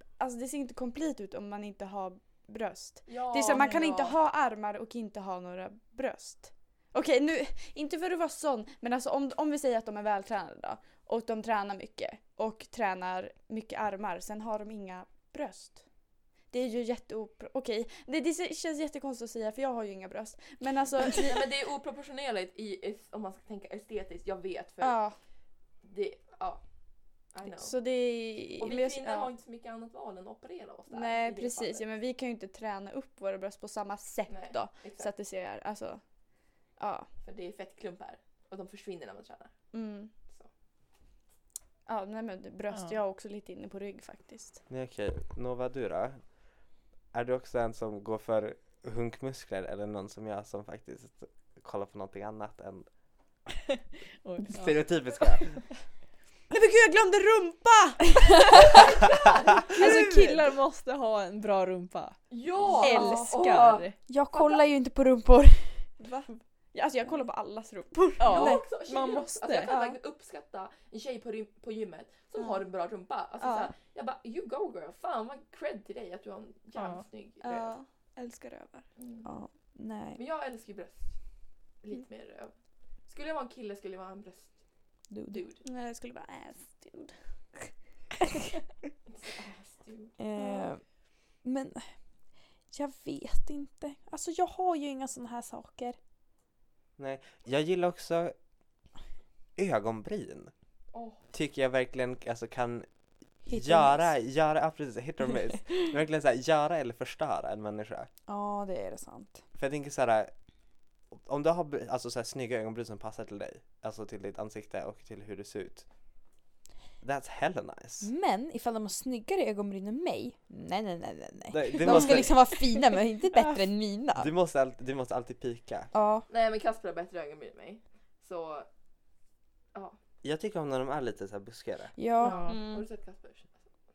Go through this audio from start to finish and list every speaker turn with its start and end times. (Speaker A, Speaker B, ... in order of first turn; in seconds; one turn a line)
Speaker A: 0.2-15.8
Speaker B: 3.0-4.1
Speaker A: 16.5-21.5
Speaker B: 21.1-25.0
Speaker A: 24.8-25.1
Speaker B: 25.8-26.6
Speaker B: 27.3-27.8
Speaker A: 27.4-29.3
Speaker B: 28.6-31.8
Speaker A: 30.9-36.0
Speaker B: 34.3-35.1
Speaker A: 36.8-37.1
Speaker B: 37.2-39.5
Speaker A: 39.7-40.1
Speaker A: 41.9-44.6
Speaker C: 42.7-43.0
Speaker D: 44.7-46.2
Speaker D: 47.1-52.9
Speaker C: 54.2-55.5
Speaker D: 54.5-55.6
Speaker A: 56.5-58.6
Speaker B: 58.8-59.7
Speaker C: 59.7-62.2
Speaker E: 59.8-60.1
Speaker B: 62.3-63.9
Speaker C: 62.8-63.9
Speaker A: 62.8-63.3
Speaker E: 62.8-65.9
Speaker A: 66.0-68.6
Speaker C: 68.2-69.7
Speaker E: 68.3-68.6
Speaker B: 68.3-77.7
Speaker A: 69.6-70.0
Speaker A: 72.4-72.6
Speaker A: 73.4-73.7
Speaker C: 76.8-77.0
Speaker A: 77.4-78.8
Speaker B: 79.0-79.3
Speaker E: 79.2-80.2
Speaker B: 80.1-81.1
Speaker B: 81.8-82.5
Speaker B: 83.1-84.5
Speaker E: 85.1-85.5
Speaker B: 85.3-85.6
Speaker A: 85.6-87.7
Speaker B: 89.1-90.1
Speaker E: 90.2-90.8
Speaker A: 90.3-90.7
Speaker E: 91.4-91.9
Speaker E: 92.7-96.0
Speaker D: 97.0-98.3
Speaker D: 99.5-100.5
Speaker B: 100.9-101.2
Speaker D: 101.3-102.9
Speaker D: 103.5-108.1
Speaker E: 103.5-104.1
Speaker E: 108.3-109.4
Speaker D: 109.5-110.3
Speaker D: 111.1-115.8
Speaker D: 117.0-118.1
Speaker E: 118.0-124.3
Speaker D: 121.5-122.6
Speaker D: 124.2-125.9
Speaker E: 125.9-126.3
Speaker B: 126.3-128.7
Speaker D: 130.2-131.9
Speaker E: 131.9-132.5
Speaker B: 132.2-133.7
Speaker C: 132.2-132.6
Speaker A: 132.4-132.8